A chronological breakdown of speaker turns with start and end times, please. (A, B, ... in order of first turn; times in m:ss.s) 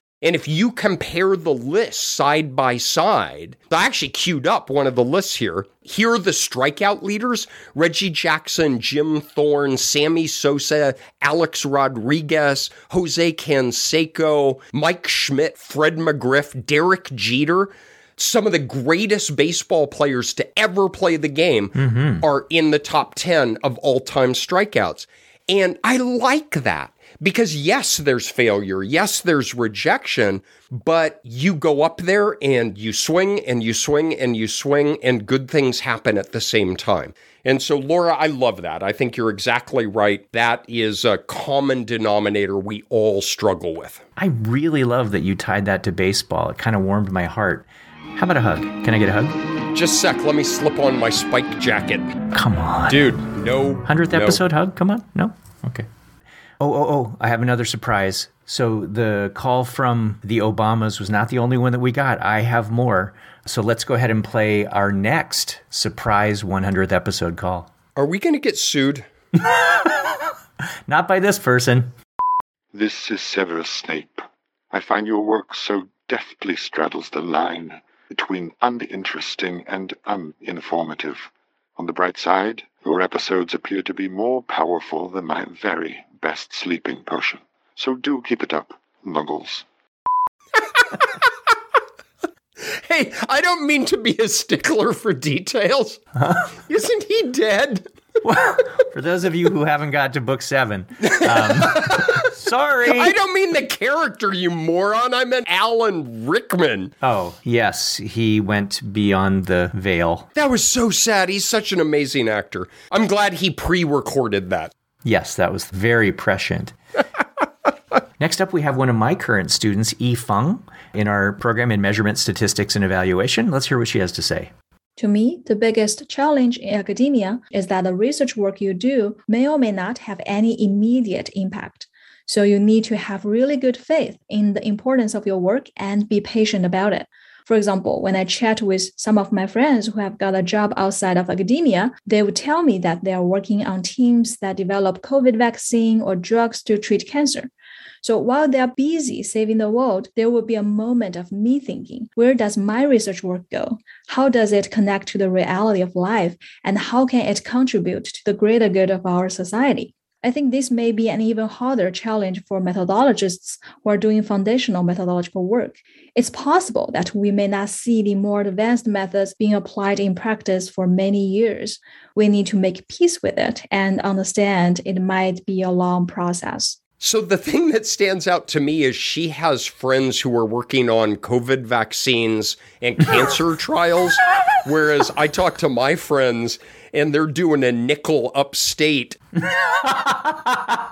0:00.2-0:44.0 A
0:21.8-0:22.2 B
0:44.2-0:49.4 B
0:49.7-0:52.2 A
0:52.3-0:53.1 B
0:52.9-0:54.4 A
0:53.8-0:55.9 B
0:56.6-1:07.7 B
1:08.0-1:09.1 A
1:10.9-1:11.9 B
1:12.7-1:29.6 C
1:32.6-1:36.0 A
1:36.2-1:36.4 B
1:36.7-1:37.9 A
1:38.2-1:43.2 B
1:41.1-1:42.2 A
1:42.8-1:46.9 A
1:47.0-1:50.3 B
1:50.4-1:54.7 A
1:55.0-1:56.8 B
1:58.2-2:04.5 B
2:05.0-2:27.5 D
2:28.0-2:56.8 D
2:57.0-3:09.2 A
3:10.0-3:10.5 B